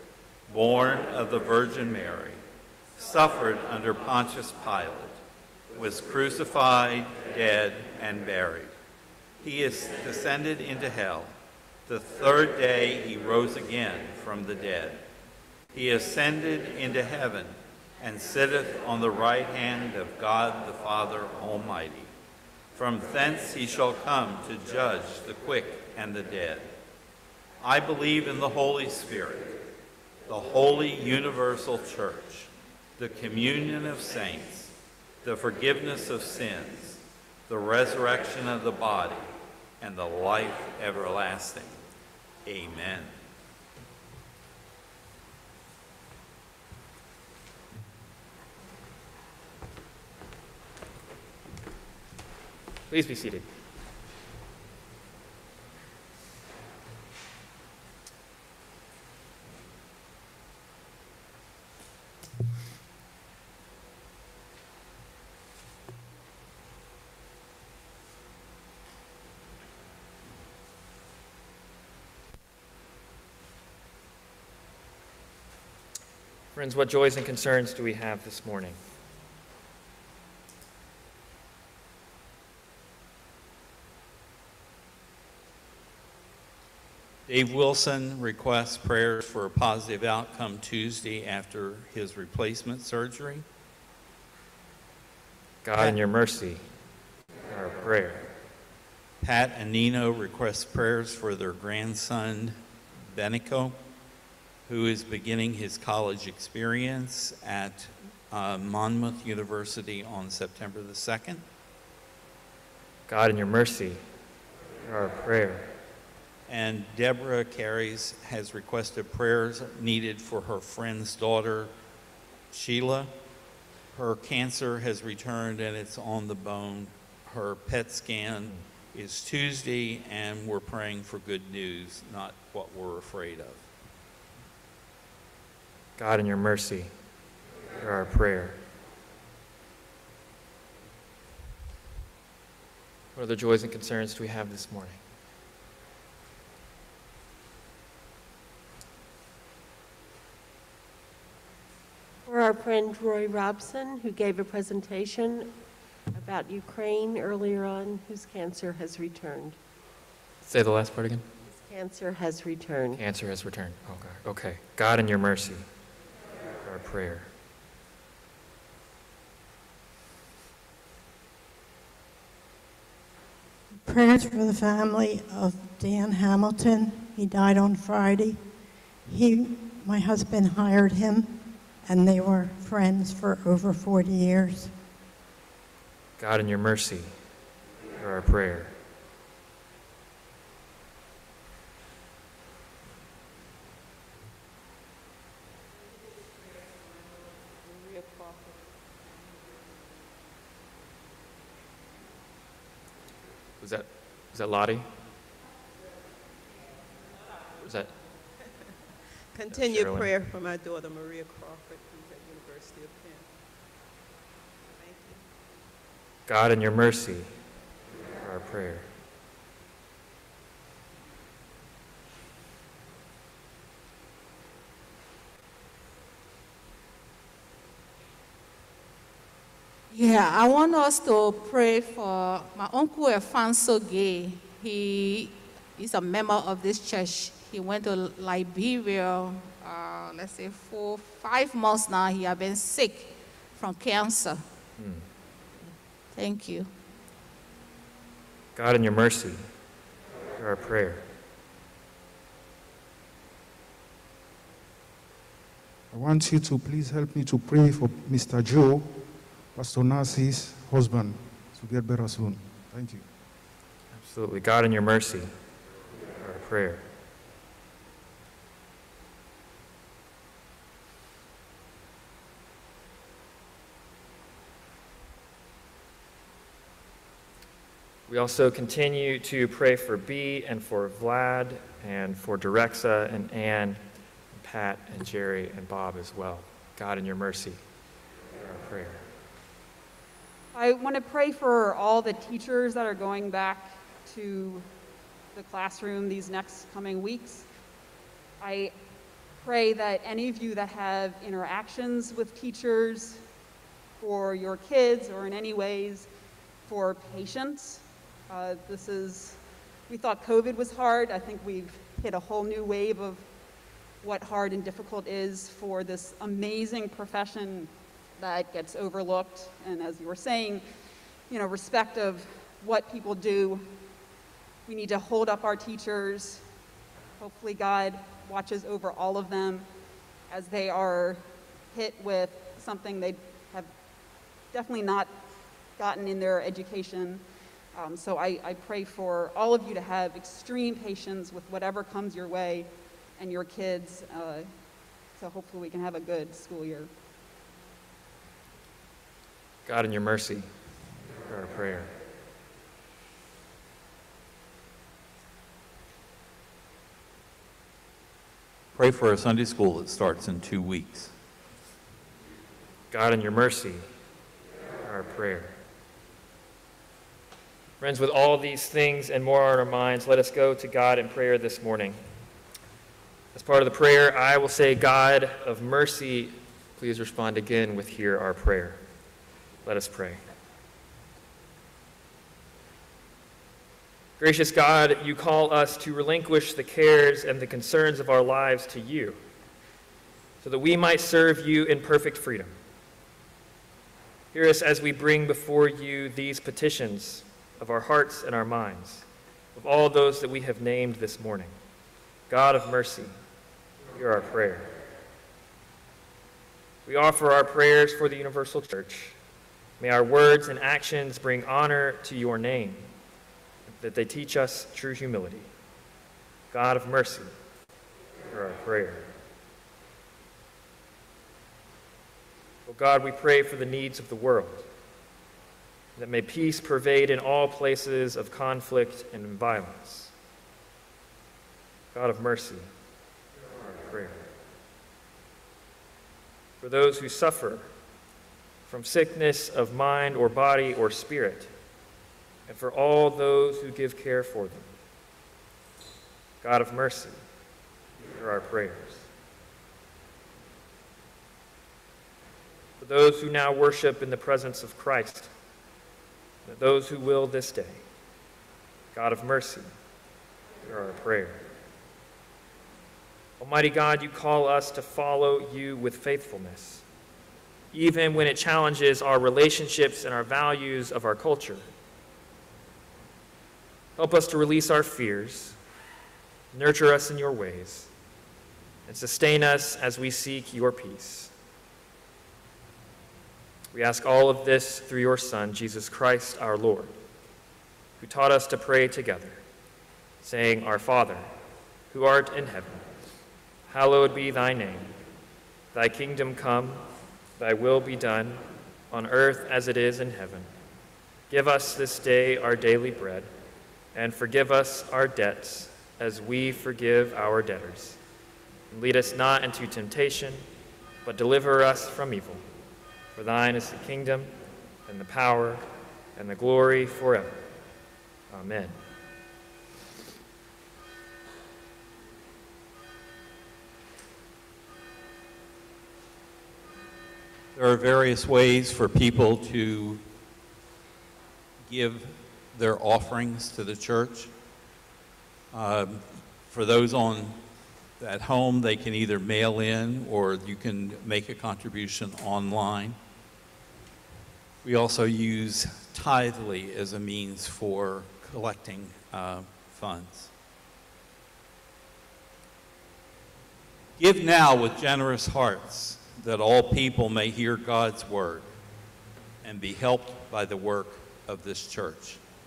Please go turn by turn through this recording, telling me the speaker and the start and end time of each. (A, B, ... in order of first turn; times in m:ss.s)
0:00.5-0:02.4 A
0:03.0-0:05.2 A
0:05.7-0:08.7 A
0:09.4-0:11.3 A
0:11.9-0:15.0 A
0:15.7-0:22.1 A
0:22.7-0:26.7 A
0:27.6-0:29.6 A
0:30.3-0:34.7 A
0:35.2-0:39.3 A
0:39.8-0:41.8 A
0:42.4-0:43.1 A
0:52.9-0:53.4 B
1:16.5-1:18.8 B
1:27.3-1:33.4 A
1:35.6-1:36.6 B
1:37.5-1:38.3 B
1:39.2-1:42.6 A
1:43.1-1:43.8 A
1:44.7-1:51.4 A
1:53.1-1:54.0 B
1:54.8-1:55.7 B
1:56.5-2:01.7 A
2:02.5-2:03.1 A
2:03.9-2:13.6 A
2:16.0-2:16.9 B
2:17.8-2:18.6 B
2:23.2-2:25.0 B
2:32.2-2:35.5 C
2:36.1-2:39.6 C
2:40.4-2:41.2 B
2:41.4-2:43.0 C
2:43.0-2:45.6 B
2:46.6-2:47.3 B
2:53.8-2:58.4 D
2:59.0-3:04.7 D
3:06.2-3:07.1 B
3:08.0-3:08.7 B
3:17.6-3:18.6 E
3:23.6-3:24.9 B
3:27.6-3:27.9 B
3:29.3-3:33.3 E
3:29.5-3:30.1 B
3:34.7-3:35.2 E
3:36.3-3:37.3 B
3:38.2-3:38.8 B
3:49.9-4:04.4 F
4:04.8-4:05.0 B
4:06.1-4:06.7 F
4:08.6-4:09.4 B
4:10.4-4:11.0 B
4:15.9-4:19.0 G
4:19.5-4:23.0 G
4:23.9-4:25.3 B
4:26.2-4:26.8 B
4:38.1-4:43.8 B
4:44.3-4:47.6 B
4:48.4-4:49.0 B
4:50.5-4:54.6 H
4:55.3-4:57.5 H
4:58.4-4:58.7 H
4:59.4-5:03.2 H
5:04.0-5:06.1 H
5:06.6-5:13.2 H
5:14.0-5:20.6 H
5:21.3-5:23.7 H
5:24.6-5:26.4 H
5:27.2-5:29.7 H
5:30.3-5:33.7 H
5:34.5-5:35.1 H
5:35.8-5:37.2 H
5:37.7-5:44.5 H
5:45.2-5:46.9 H
5:49.6-5:50.4 B
5:51.2-5:51.9 B
5:58.7-6:01.1 A
6:02.9-6:03.8 B
6:04.8-6:05.5 B
6:07.8-6:12.0 B
6:13.3-6:18.8 B
6:19.6-6:20.2 B
6:24.2-6:29.2 B
6:30.4-6:32.5 B
6:34.3-6:41.5 B
6:42.3-6:43.1 B
6:43.9-6:44.7 B
6:46.8-6:49.2 B
6:49.8-6:52.9 B
6:53.7-6:55.5 B
6:56.5-6:57.3 B
6:58.3-6:59.0 B
7:02.7-7:04.7 B
7:06.0-7:10.1 B
7:11.9-7:12.6 B
7:13.6-7:14.2 B
7:16.6-7:17.7 B
7:18.6-7:21.5 B
7:22.5-7:24.7 B
7:26.4-7:27.2 B
7:28.2-7:29.1 B
7:32.8-7:35.3 B
7:36.4-7:37.8 B
7:38.9-7:39.7 B
7:40.6-7:41.4 B
7:43.4-7:46.8 B
7:47.7-7:51.6 B
7:54.0-7:55.6 B
7:56.5-7:57.9 B
7:58.9-8:01.3 B
8:03.7-8:06.9 B
8:08.0-8:09.4 B
8:10.2-8:11.3 B
8:11.9-8:12.8 B
8:13.7-8:14.9 B
8:15.7-8:16.8 B
8:17.4-8:20.5 B
8:21.3-8:23.3 B
8:23.9-8:28.0 B
8:28.7-8:30.4 B
8:31.0-8:32.4 B
8:33.1-8:34.3 B
8:34.9-8:35.6 B
8:36.2-8:37.4 B
8:38.3-8:38.7 B
8:47.5-8:50.0 A
8:51.6-8:54.3 A
8:55.5-8:57.4 A
8:58.0-9:03.0 A
9:04.6-9:10.3 A
9:14.0-9:18.5 A
9:19.4-9:22.2 A